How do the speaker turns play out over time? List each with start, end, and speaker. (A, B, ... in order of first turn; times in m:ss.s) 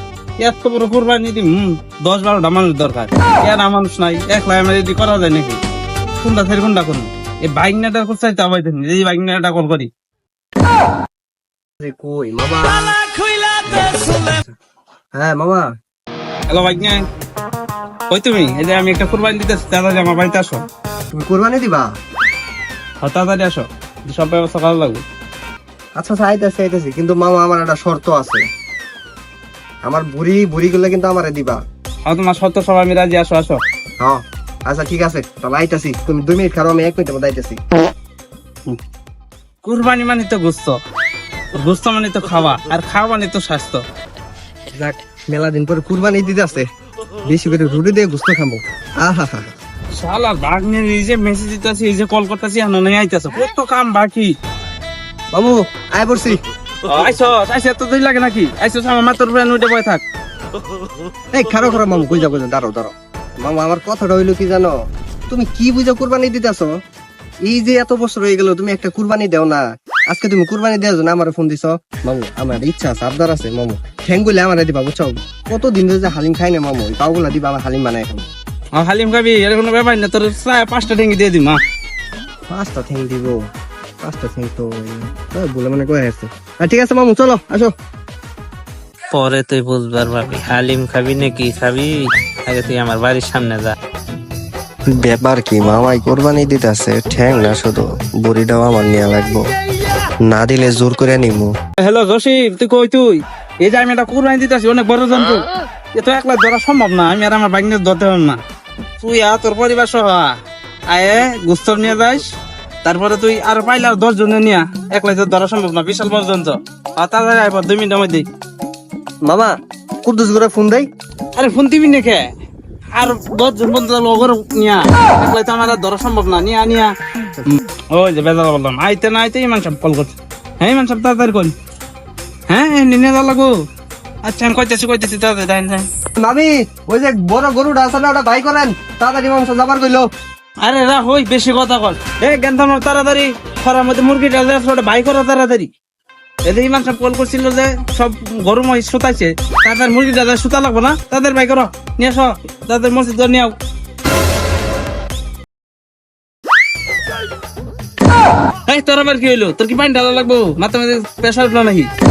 0:00.4-0:05.6 A
0:06.2-0:09.9 A
0:11.8-0:13.0 B
0:13.6-0:14.5 B
0:15.2-0:15.7 B
0:16.5-0:17.0 A
0:18.1-0:20.6 A
0:21.1-0:21.9 B
0:23.0-0:25.0 A
0:26.0-0:28.4 B
0:29.8-0:31.6 B
0:32.0-0:33.6 A
0:34.0-0:37.6 B
0:39.6-0:40.8 A
0:41.5-0:43.8 A
0:44.7-0:46.7 B
0:47.2-0:49.5 B
0:50.0-0:54.3 A
0:55.3-0:56.4 B
0:56.8-1:00.0 A
1:01.3-1:04.7 B
1:05.3-1:06.7 B
1:07.4-1:18.2 B
1:18.8-1:21.6 A
1:22.5-1:23.4 B
1:24.0-1:27.7 B
1:29.1-1:31.9 C
1:29.2-1:31.8 A
1:32.5-1:33.6 C
1:32.6-1:33.6 A
1:35.0-1:39.5 B
1:40.2-1:41.5 B
1:41.8-1:48.4 A
1:49.0-1:50.4 A
1:50.9-1:52.3 A
1:52.8-1:58.3 A
1:59.3-1:59.5 B
2:00.0-2:00.9 B
2:01.4-2:02.2 A
2:03.0-2:06.9 A
2:07.5-2:11.5 A
2:12.5-2:13.5 A
2:14.2-2:15.9 A
2:16.2-2:20.1 B
2:20.6-2:25.7 A
2:26.4-2:33.5 A
2:38.7-2:41.9 A